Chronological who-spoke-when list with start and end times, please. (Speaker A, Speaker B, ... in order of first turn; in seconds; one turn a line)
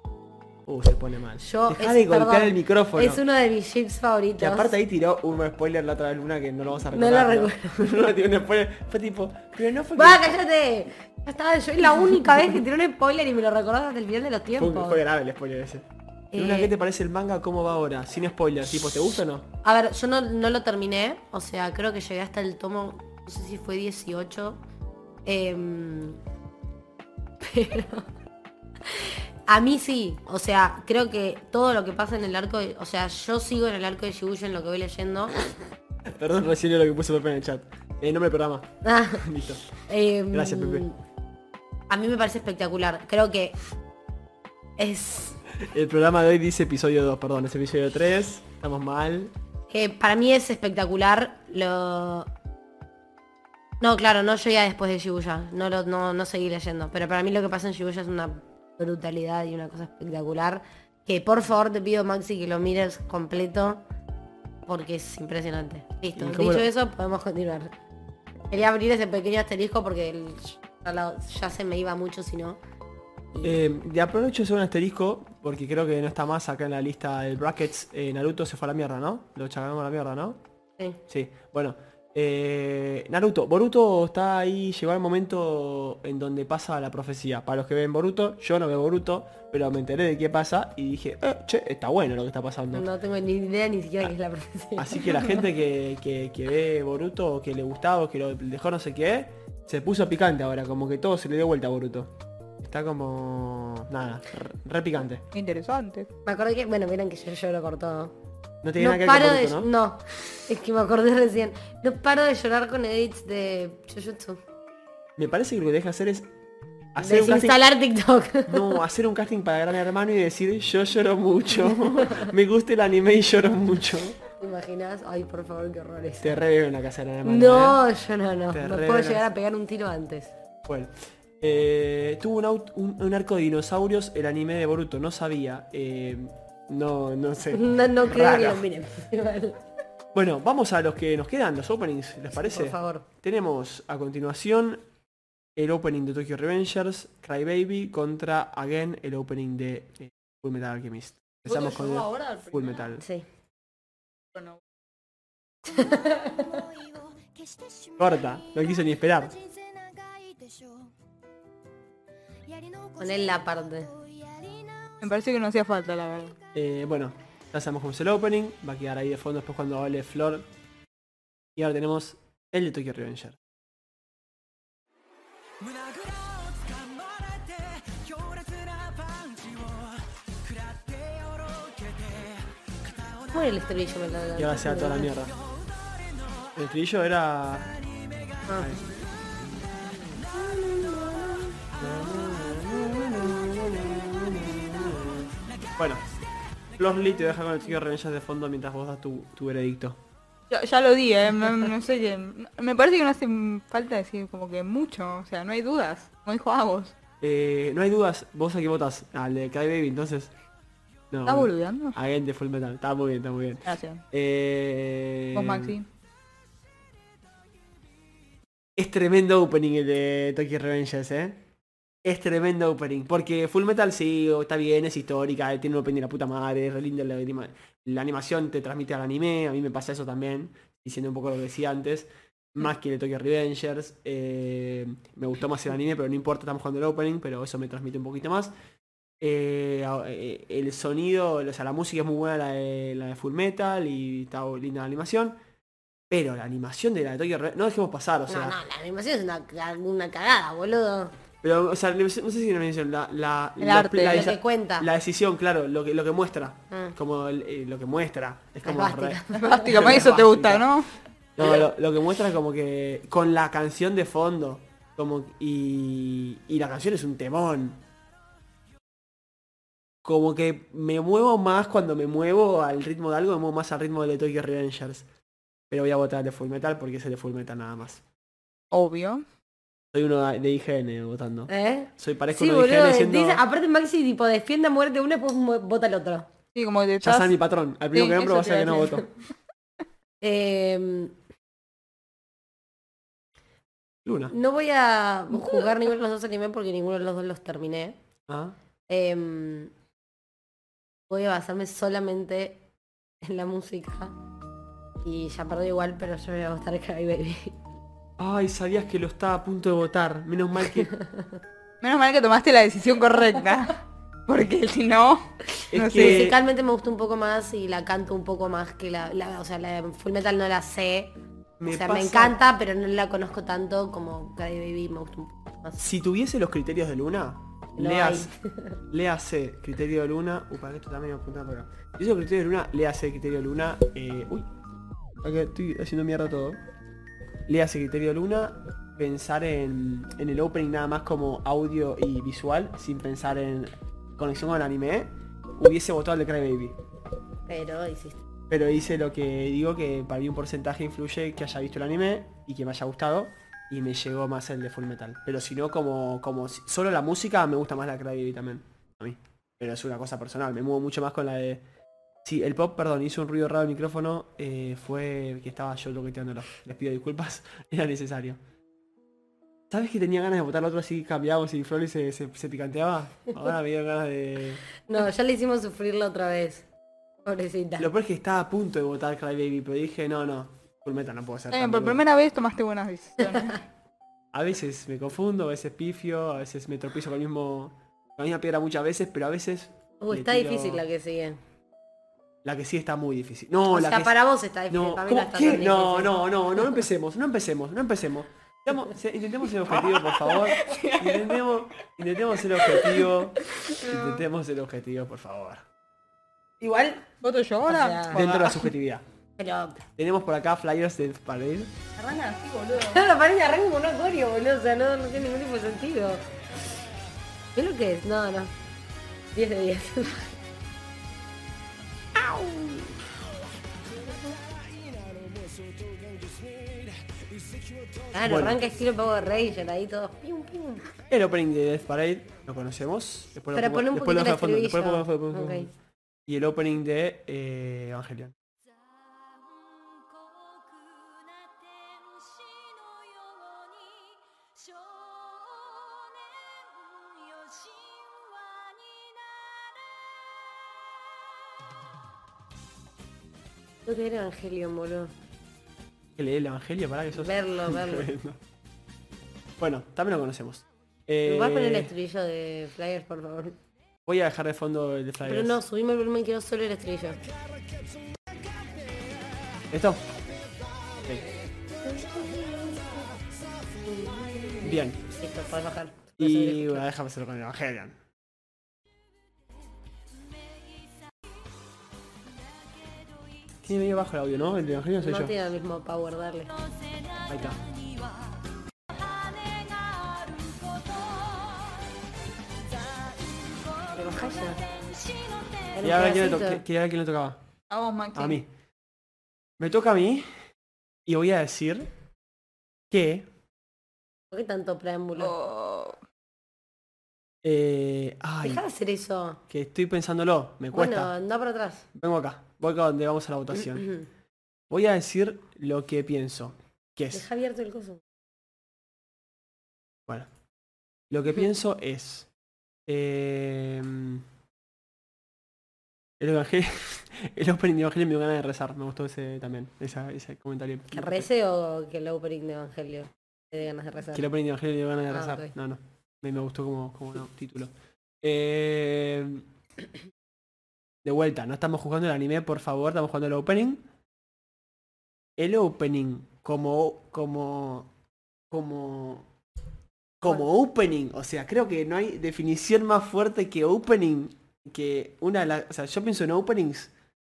Speaker A: 0.7-3.2
Speaker B: 1.4-4.7
Speaker A: 4.4-10.3
Speaker B: 6.9-7.9
Speaker B: 9.9-15.0
Speaker A: 14.5-19.5
Speaker B: 16.3-16.7
Speaker B: 19.6-24.6
Speaker B: 25.2-26.2
Speaker B: 27.4-28.1
Speaker B: 28.8-35.4
Speaker A: 36.1-39.7
Speaker B: 38.8-41.0
Speaker A: 40.3-40.9
Speaker B: 41.9-43.6
Speaker B: 44.8-45.4
Speaker A: 45.5-49.3
Speaker B: 49.7-52.3
Speaker B: 53.8-63.8
Speaker B: 64.7-67.7
Speaker A: 66.2-66.7
Speaker B: 68.5-72.6
Speaker A: 73.4-80.4
Speaker A: 81.1-92.9
Speaker B: 92.7-95.2
Speaker A: 94.8-105.2
Speaker C: 105.3-106.1
Speaker B: 106.2-108.1
Speaker A: 108.6-109.7
Speaker B: 108.8-114.4
Speaker A: 115.2-116.3
Speaker A: 116.9-117.6
Speaker B: 117.0-118.8
Speaker A: 118.5-124.2
Speaker B: 122.0-122.3
Speaker B: 124.4-126.3
Speaker A: 126.2-127.8
Speaker B: 127.2-130.3
Speaker A: 128.5-129.3
Speaker A: 130.7-138.6
Speaker B: 137.5-139.6
Speaker A: 140.1-144.8
Speaker B: 142.3-143.1
Speaker A: 145.6-153.0
Speaker C: 151.4-152.9
Speaker B: 153.0-153.3
Speaker C: 154.3-154.6
Speaker D: 155.6-160.9
Speaker B: 155.8-156.4
Speaker A: 158.0-159.3
Speaker D: 162.4-165.2
Speaker B: 163.0-163.9
Speaker C: 165.0-166.3
Speaker A: 166.5-170.5
Speaker A: 171.6-173.4
Speaker D: 175.6-179.8
Speaker D: 180.6-182.2
Speaker B: 183.3-185.1
Speaker A: 184.3-185.4
Speaker A: 186.5-187.8
Speaker B: 188.4-188.7
Speaker A: 188.6-188.9
Speaker B: 190.3-191.6
Speaker A: 191.7-196.0
Speaker A: 196.8-200.0
Speaker C: 200.5-206.9
Speaker A: 207.2-210.3
Speaker A: 211.1-215.8
Speaker C: 211.2-212.0
Speaker C: 213.7-214.0
Speaker C: 215.3-215.9
Speaker A: 218.8-221.4
Speaker A: 222.0-238.5
Speaker A: 239.2-245.3
Speaker A: 246.1-248.6
Speaker B: 248.3-251.1
Speaker A: 251.4-260.7
Speaker C: 253.6-254.3
Speaker B: 254.0-254.9
Speaker B: 256.7-256.9
Speaker B: 258.6-260.1
Speaker C: 259.3-260.9
Speaker A: 261.4-267.8
Speaker A: 270.0-275.1
Speaker A: 275.7-278.0
Speaker C: 278.7-279.2
Speaker A: 279.9-283.4
Speaker B: 281.5-286.3
Speaker C: 286.5-287.4
Speaker A: 287.0-289.1
Speaker C: 287.9-289.1
Speaker B: 290.2-291.1
Speaker A: 294.0-294.3
Speaker B: 294.3-298.0
Speaker A: 298.3-298.6
Speaker B: 298.9-299.7
Speaker B: 301.1-302.6
Speaker B: 303.2-304.1
Speaker B: 305.0-307.6
Speaker A: 308.2-310.9
Speaker B: 310.8-311.4
Speaker C: 311.8-316.3
Speaker A: 315.7-316.4
Speaker B: 315.9-321.1
Speaker A: 321.6-322.4
Speaker B: 321.7-325.8
Speaker A: 325.8-328.3
Speaker B: 327.8-328.8
Speaker A: 328.9-334.5
Speaker A: 335.2-336.6
Speaker A: 337.5-346.8
Speaker B: 347.5-348.2
Speaker A: 348.5-361.6
Speaker A: 362.2-368.4
Speaker A: 369.7-374.6
Speaker B: 374.9-376.7
Speaker B: 377.2-377.9
Speaker A: 377.8-382.0
Speaker C: 381.5-383.6
Speaker A: 384.3-390.8
Speaker B: 390.0-391.4
Speaker A: 392.4-394.1
Speaker B: 393.7-396.2
Speaker A: 394.7-405.6
Speaker C: 399.7-401.4
Speaker C: 402.5-403.1
Speaker C: 403.6-404.2
Speaker C: 406.6-408.7
Speaker B: 407.7-408.2
Speaker A: 408.1-409.0
Speaker B: 409.4-409.8
Speaker A: 410.0-411.7
Speaker C: 412.0-413.1
Speaker B: 412.8-416.2
Speaker B: 417.5-418.5
Speaker B: 419.3-420.3
Speaker B: 422.2-422.9
Speaker B: 428.1-430.9
Speaker A: 428.2-428.6
Speaker A: 431.1-435.7
Speaker B: 433.5-435.7
Speaker A: 436.2-438.3
Speaker D: 438.6-451.6
Speaker B: 453.9-455.1
Speaker A: 456.2-458.4
Speaker B: 457.1-458.1
Speaker A: 459.6-461.9
Speaker B: 461.2-463.6
Speaker A: 464.1-465.6
Speaker B: 465.2-467.2
Speaker A: 469.7-470.1
Speaker A: 471.0-471.3
Speaker B: 471.8-473.1
Speaker D: 472.0-472.6
Speaker B: 473.8-476.9
Speaker A: 474.6-475.0
Speaker A: 476.2-478.0
Speaker D: 479.3-483.7
Speaker A: 483.6-485.3
Speaker B: 485.0-486.5
Speaker D: 486.4-492.0
Speaker A: 487.3-487.6
Speaker D: 492.5-496.1
Speaker B: 493.9-494.6
Speaker B: 495.7-496.6
Speaker A: 495.8-497.4
Speaker C: 497.7-498.4
Speaker A: 498.1-498.5
Speaker A: 499.6-500.3
Speaker A: 501.1-501.9
Speaker A: 502.9-503.3
Speaker B: 504.3-505.3
Speaker C: 505.2-506.0
Speaker A: 507.4-508.6
Speaker B: 508.4-509.4
Speaker A: 509.5-511.1
Speaker B: 510.7-511.9
Speaker A: 511.9-513.9
Speaker B: 513.7-514.1
Speaker A: 514.7-517.3
Speaker B: 517.1-518.0
Speaker A: 521.1-522.3
Speaker A: 522.9-524.2
Speaker A: 526.2-531.3
Speaker B: 530.9-534.2
Speaker A: 534.1-539.5
Speaker B: 535.1-535.5
Speaker A: 541.0-543.8
Speaker A: 545.4-547.9
Speaker A: 548.5-549.3
Speaker A: 550.2-556.9